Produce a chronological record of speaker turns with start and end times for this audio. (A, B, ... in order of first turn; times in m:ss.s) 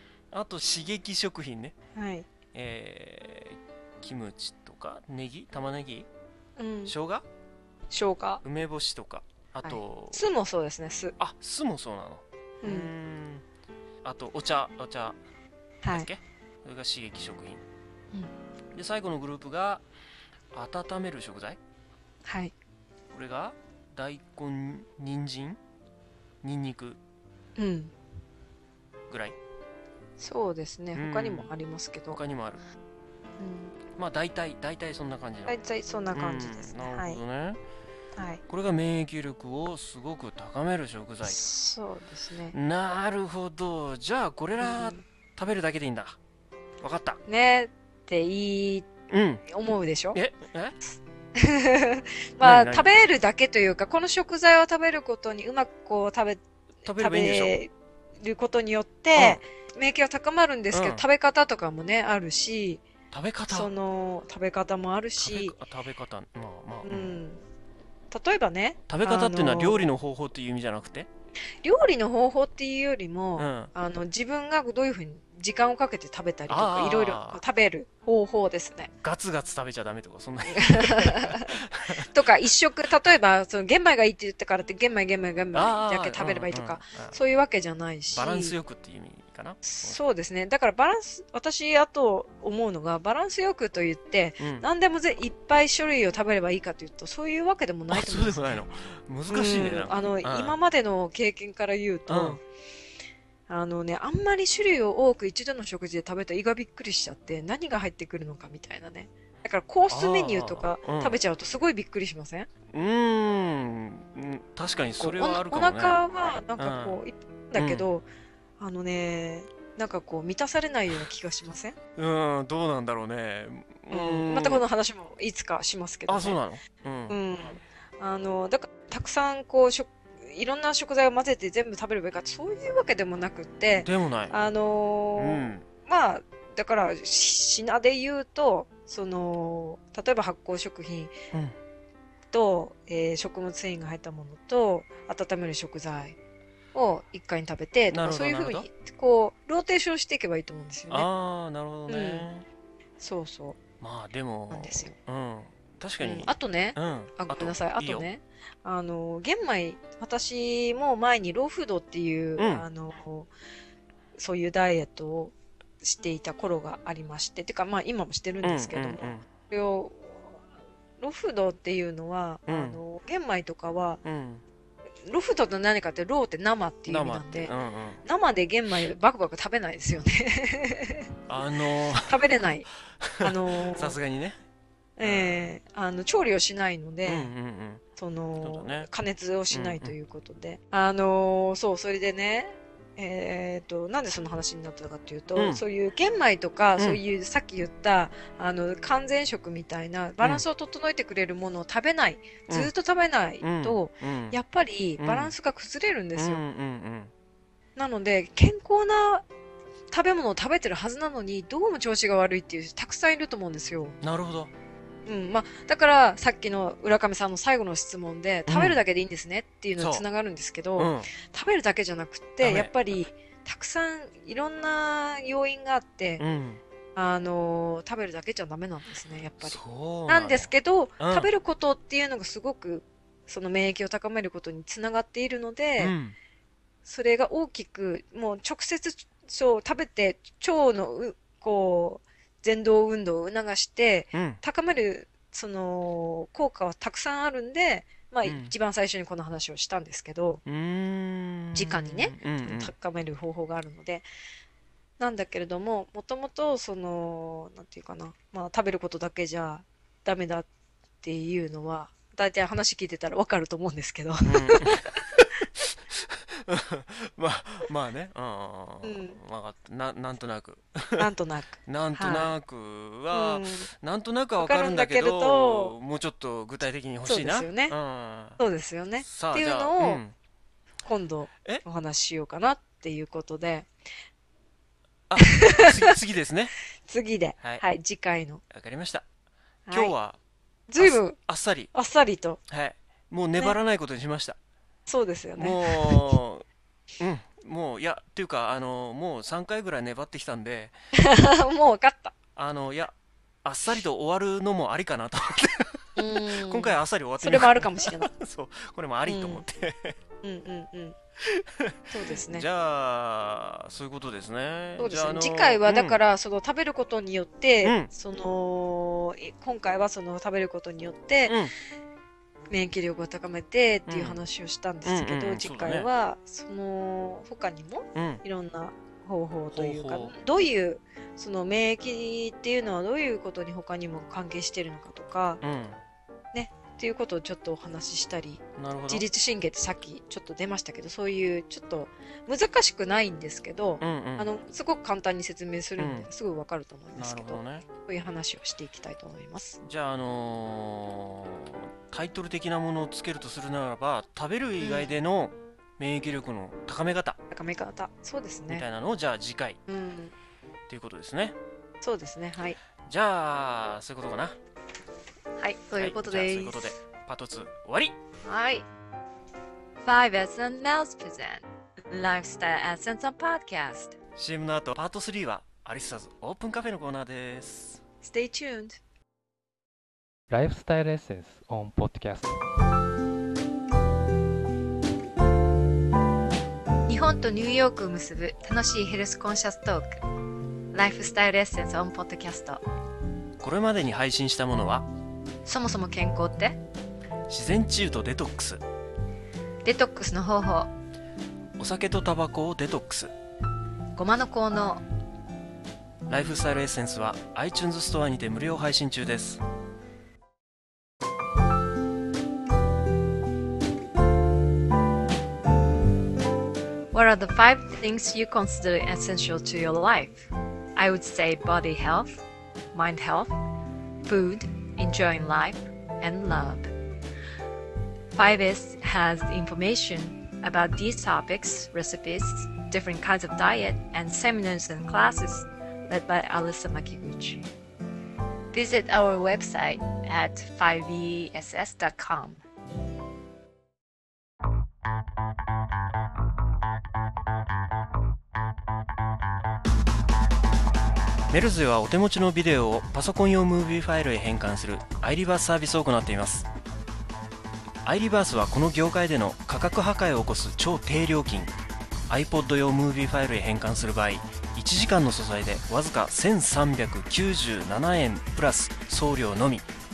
0:00.3-0:01.7 A
0:01.9-0:02.3 B
0:02.5-0:06.1 A
0:06.6-0:06.9 B
0:06.9-0:07.2 A
0:07.9-0:08.4 B
0:08.4-0:10.2 A
0:09.6-0:11.2 B
0:11.2-0:13.4 A
0:12.6-0:12.9 B
0:14.0-0:15.2 A
0:15.8-0:16.1 B
0:15.9-0:17.6 A
0:18.7-0:19.8 A
0:20.5-0:21.6 A
0:22.2-0:22.5 B
0:23.1-0:25.6 A
0:26.4-0:27.0 A
0:27.6-0:27.9 B
0:29.1-0:29.4 A
0:30.2-0:32.2 B
0:30.9-0:31.5 A
0:32.1-0:32.7 A
0:33.4-0:33.8 B
0:34.0-0:35.6 A
0:35.5-0:37.2 B
0:36.1-0:37.6 A
0:38.2-0:38.4 B
0:38.5-0:41.4 A
0:41.2-0:42.6 B
0:42.5-0:46.2 A
0:44.6-0:45.0 B
0:46.8-0:47.2 A
0:47.2-0:48.9 B
0:49.1-0:49.4 A
0:49.5-0:50.2 B
0:50.1-0:50.8 A
0:51.4-0:56.4 B
0:52.4-0:52.9 A
0:56.8-0:57.6 A
0:57.0-1:02.8 B
0:59.1-0:59.4 A
1:00.7-1:01.1 A
1:03.1-1:03.7 A
1:03.5-1:05.5 B
1:05.2-1:07.2 A
1:06.8-1:07.4 B
1:08.1-1:09.9 B
1:08.9-1:11.1 A
1:11.6-1:18.9 B
1:13.4-1:13.7 A
1:16.5-1:17.4 A
1:19.0-1:22.2 A
1:20.5-1:28.6 B
1:25.5-1:27.2 A
1:28.1-1:30.0 A
1:29.6-1:38.6 B
1:34.4-1:34.6 A
1:37.9-1:40.6 A
1:39.3-1:42.4 B
1:42.1-1:42.4 A
1:43.5-1:52.5 B
1:49.9-1:51.2 A
1:52.7-1:56.0 A
1:55.0-1:58.1 B
1:56.6-1:57.0 A
1:57.5-1:57.8 A
1:58.6-2:01.8 B
2:02.0-2:04.6 A
2:03.9-2:06.4 B
2:06.1-2:07.2 A
2:07.1-2:21.1 B
2:13.7-2:14.4 A
2:15.2-2:15.6 A
2:22.3-2:26.2 B
2:26.7-2:31.1 B
2:27.9-2:28.7 A
2:30.9-2:32.4 A
2:31.9-2:32.3 B
2:33.0-2:33.6 B
2:33.8-2:38.1 A
2:34.5-2:34.9 B
2:36.0-2:43.3 B
2:42.4-2:42.6 A
2:44.1-2:50.4 B
2:48.4-2:49.2 A
2:51.0-2:54.0 B
2:52.5-2:52.8 A
2:54.0-2:54.4 A
2:55.0-3:01.1 B
2:56.9-2:58.0 A
3:01.3-3:02.2 A
3:01.9-3:02.7 B
3:03.0-3:04.4 A
3:03.2-3:04.0 B
3:05.0-3:07.3 B
3:05.0-3:05.5 A
3:07.0-3:07.8 A
3:08.0-3:26.4 B
3:08.4-3:08.9 A
3:09.5-3:09.9 A
3:15.4-3:15.6 A
3:23.4-3:24.4 A
3:25.0-3:25.3 A
3:26.2-3:27.1 A
3:27.8-3:29.2 B
3:29.9-3:34.0 B
3:34.0-3:34.5 A
3:35.1-3:46.2 B
3:38.5-3:38.8 A
3:39.8-3:40.0 A
3:40.8-3:41.1 A
3:42.4-3:42.7 A
3:46.2-3:46.6 A
3:46.9-3:55.9 B
3:49.4-3:51.3 A
3:55.8-3:56.2 A
3:56.9-4:10.4 B
4:04.1-4:04.4 A
4:08.2-4:08.5 A
4:10.4-4:12.7 A
4:11.5-4:14.0 B
4:15.0-4:20.5 B
4:21.0-4:25.4 B
4:24.2-4:31.1 A
4:28.8-4:29.2 B
4:31.0-4:32.3 B
4:31.6-4:38.4 A
4:33.1-4:33.7 B
4:34.4-4:35.8 B
4:37.0-4:37.8 B
4:38.4-4:40.0 B
4:39.0-4:40.1 A
4:40.8-4:43.7 B
4:45.1-4:46.5 A
4:45.2-4:45.9 B
4:46.9-4:48.4 B
4:48.5-4:49.1 A
4:49.7-4:49.9 B
4:49.7-4:50.2 A
4:50.7-4:51.2 B
4:50.8-4:51.7 A
4:51.7-4:52.4 B
4:52.5-4:54.4 A
4:54.9-4:56.1 B
4:55.4-4:56.4 A
4:57.0-5:00.7 A
5:00.9-5:02.1 B
5:02.4-5:10.0 A
5:06.0-5:08.1 B
5:09.0-5:09.4 B
5:10.2-5:11.0 B
5:11.2-5:16.0 A
5:11.9-5:12.5 B
5:14.8-5:21.4 B
5:17.6-5:17.9 A
5:21.2-5:21.5 A
5:22.5-5:35.4 B
5:23.9-5:24.2 A
5:24.9-5:25.9 A
5:27.9-5:28.2 A
5:29.5-5:30.2 A
5:35.4-5:35.8 A
5:36.3-5:49.6 B
5:38.6-5:39.1 A
5:43.8-5:44.3 A
5:45.8-5:46.1 A
5:46.9-5:47.6 A
5:49.6-5:57.2 A
5:54.6-5:54.9 B
5:57.3-5:58.6 B
5:58.5-5:59.6 A
5:59.7-6:00.1 B
6:00.7-6:01.4 A
6:01.8-6:02.6 B
6:02.9-6:04.4 A
6:05.4-6:06.8 B
6:05.7-6:08.0 A
6:08.2-6:08.6 B
6:09.8-6:13.9 B
6:14.2-6:17.8 A
6:18.0-6:18.8 B
6:20.3-6:22.4 C
6:26.9-6:29.9 B
6:30.7-6:32.6 B
6:33.4-6:34.9 A
6:35.4-6:36.6 B
6:37.3-6:38.6 A
6:39.6-6:40.7 B
6:41.6-6:43.1 A
6:44.0-6:44.8 B
6:46.1-6:49.4 A
6:56.9-7:02.2 B
7:02.7-7:03.3 B
7:04.0-7:06.7 B
7:08.1-7:17.5 B
7:18.5-7:22.4 B
7:31.3-7:36.5 A
7:37.8-7:41.5 A
7:42.1-7:49.6 A